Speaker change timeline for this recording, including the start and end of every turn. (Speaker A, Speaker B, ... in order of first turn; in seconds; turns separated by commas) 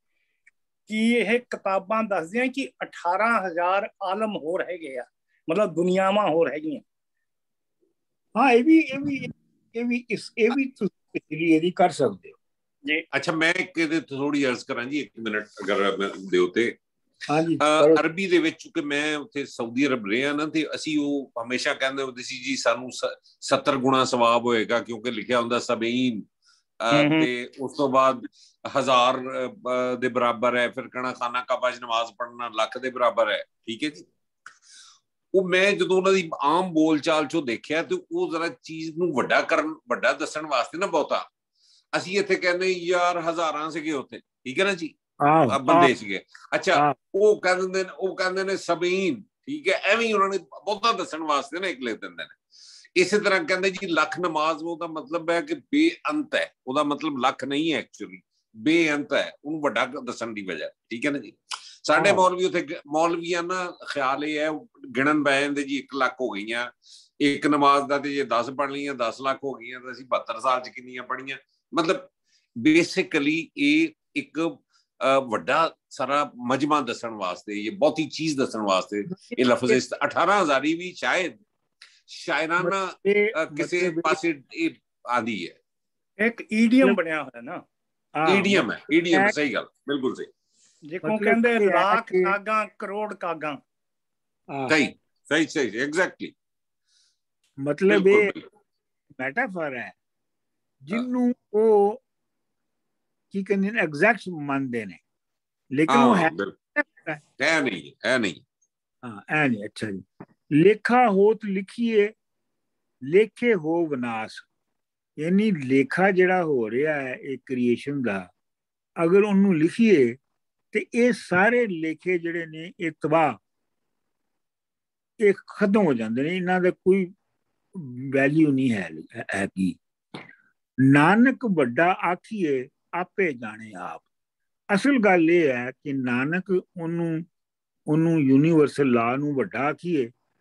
Speaker A: 0.9-6.8, Speaker B: 8.3-12.3, Speaker C: 13.1-16.7, Speaker B: 17.3-18.0, Speaker C: 17.6-26.2, Speaker C: 26.8-34.0, Speaker A: 26.9-27.3, Speaker C: 35.3-41.2, Speaker C: 41.9-44.9, Speaker B: 45.2-45.9, Speaker C: 45.5-52.4, Speaker C: 53.0-72.1, Speaker B: 61.9-62.2, Speaker C: 72.6-81.3, Speaker B: 79.1-79.8, Speaker C: 82.1-85.5, Speaker B: 82.6-84.2, Speaker A: 86.2-87.6, Speaker B: 88.2-89.3, Speaker C: 88.2-90.3, Speaker A: 90.9-93.6, Speaker B: 91.0-92.3, Speaker B: 94.5-94.8, Speaker C: 94.7-96.3, Speaker B: 97.6-98.3, Speaker C: 97.9-98.4, Speaker B: 99.2-99.9, Speaker B: 100.8-102.0, Speaker B: 103.3-105.0, Speaker B: 105.7-107.2, Speaker C: 105.9-106.5, Speaker C: 107.4-108.4, Speaker B: 109.0-112.1, Speaker B: 113.1-114.5, Speaker B: 115.2-118.3, Speaker B: 119.0-120.2, Speaker B: 120.7-123.4, Speaker B: 125.2-127.1, Speaker B: 127.7-129.8, Speaker B: 130.8-134.1, Speaker B: 134.7-137.2, Speaker B: 137.9-140.1